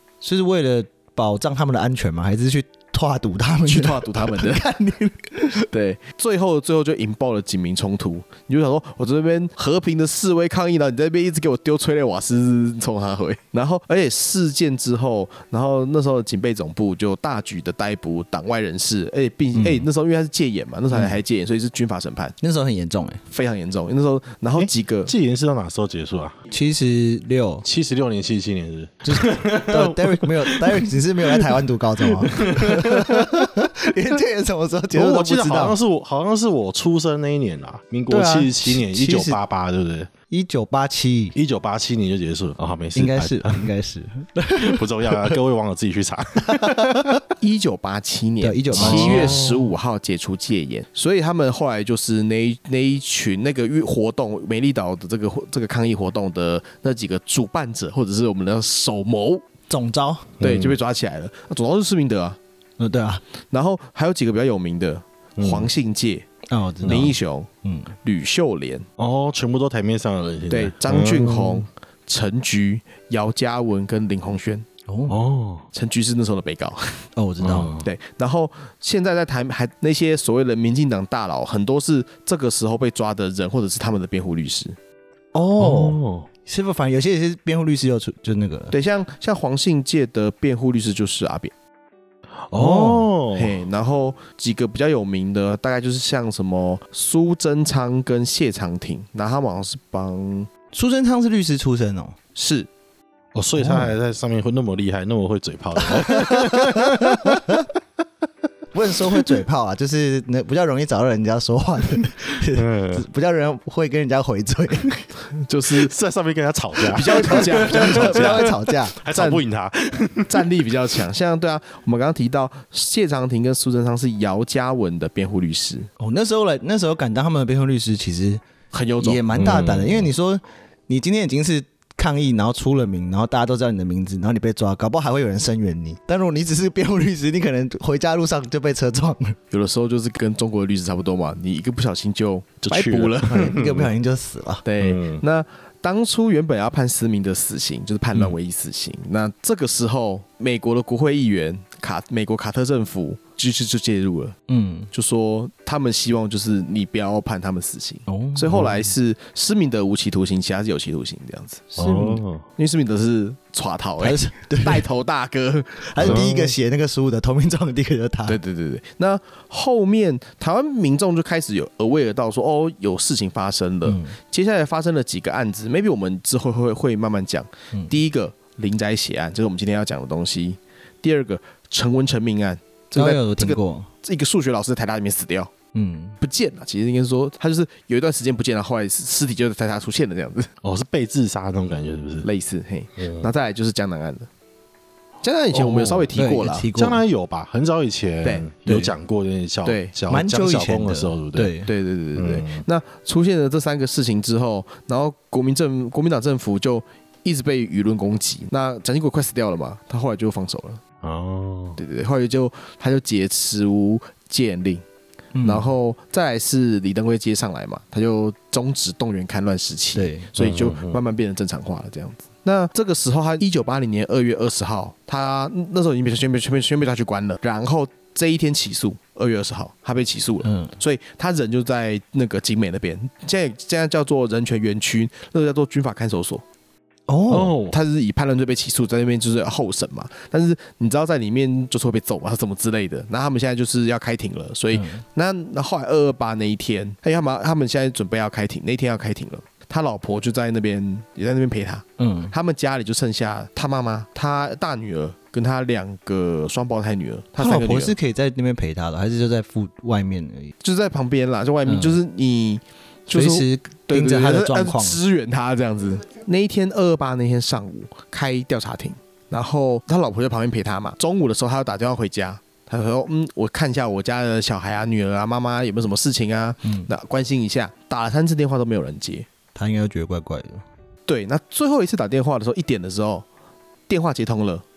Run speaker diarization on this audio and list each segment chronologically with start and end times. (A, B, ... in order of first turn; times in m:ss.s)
0:00.2-0:05.6 A
0:03.7-0:04.6 B
0:05.7-0:22.4 B
0:19.5-0:19.9 A
0:20.9-0:21.2 A
0:22.4-0:23.2 A
0:23.3-0:25.1 B
0:24.6-0:26.4 C
0:26.5-0:27.6 A
0:27.6-0:33.5 C
0:29.0-0:35.8 A
0:34.9-0:40.1 C
0:38.1-0:39.4 A
0:40.3-0:41.4 A
0:41.3-0:43.7 C
0:42.9-0:45.4 A
0:44.6-0:47.2 C
0:46.5-0:47.2 A
0:47.4-0:59.4 B
0:48.4-0:49.6 A
0:48.7-0:49.6 C
0:59.7-1:00.3 A
1:00.4-1:00.8 C
1:00.4-1:02.4 B
1:02.8-1:03.2 A
1:03.5-1:06.3 B
1:05.4-1:05.7 C
1:06.5-1:07.9 A
1:06.8-1:07.5 B
1:08.0-1:08.8 B
1:09.0-1:11.6 C
1:10.5-1:14.6 B
1:14.9-1:15.1 A
1:15.1-1:15.6 C
1:15.7-1:17.0 B
1:17.2-1:17.8 A
1:17.4-1:17.9 C
1:17.8-1:24.8 B
1:25.3-1:28.7 A
1:25.6-1:26.3 C
1:28.7-1:31.5 B
1:32.5-1:33.6 C
1:32.5-1:33.1 A
1:33.3-1:40.5 B
1:40.7-1:42.2 A
1:42.3-1:42.7 B
1:43.3-1:47.6 C
1:43.6-1:43.9 A
1:45.8-1:47.6 A
1:48.7-1:55.0 A
1:52.6-1:53.0 C
1:55.4-1:55.9 B
1:55.7-2:01.0 C
1:56.9-1:58.6 B
1:57.2-1:58.9 A
1:59.1-1:59.4 B
2:00.3-2:05.9 B
2:06.0-2:08.4 A
2:08.7-2:09.2 B
2:09.0-2:19.4 A
2:09.3-2:10.1 C
2:19.5-2:23.5 B
2:22.6-2:23.9 C
2:23.2-2:24.6 A
2:24.6-2:34.4 B
2:24.8-2:25.2 C
2:34.5-2:34.9 A
2:34.9-2:41.7 B
2:38.1-2:38.8 A
2:41.7-2:42.2 A
2:41.8-2:42.4 C
2:42.6-2:46.2 B
2:44.0-2:44.8 A
2:45.8-2:48.4 A
2:46.0-2:46.5 C
2:48.3-3:05.5 B
2:53.8-2:54.2 A
3:02.9-3:03.9 A
3:05.7-3:06.2 A
3:06.2-3:10.5 B
3:10.6-3:12.3 C
3:12.2-3:14.3 B
3:13.0-3:13.3 C
3:15.2-3:16.7 B
3:15.5-3:16.1 C
3:16.2-3:17.0 A
3:16.7-3:21.5 C
3:18.6-3:18.9 A
3:19.6-3:19.9 B
3:20.1-3:21.7 A
3:21.6-3:30.8 B
3:22.1-3:22.6 C
3:31.0-3:31.8 C
3:31.8-3:34.8 B
3:35.3-3:35.7 A
3:35.4-3:56.4 B
3:39.9-3:40.3 A
3:40.4-3:41.0 C
3:50.4-3:50.7 A
3:57.1-3:57.5 A
3:57.3-3:57.8 C
3:57.7-4:17.9 B
4:04.7-4:05.0 A
4:12.0-4:12.3 A
4:17.4-4:20.5 A
4:20.6-4:39.3 B
4:21.6-4:22.0 A
4:23.1-4:25.0 A
4:36.6-4:36.9 A
4:39.5-4:40.6 A
4:41.1-4:43.2 B
4:43.9-4:44.6 B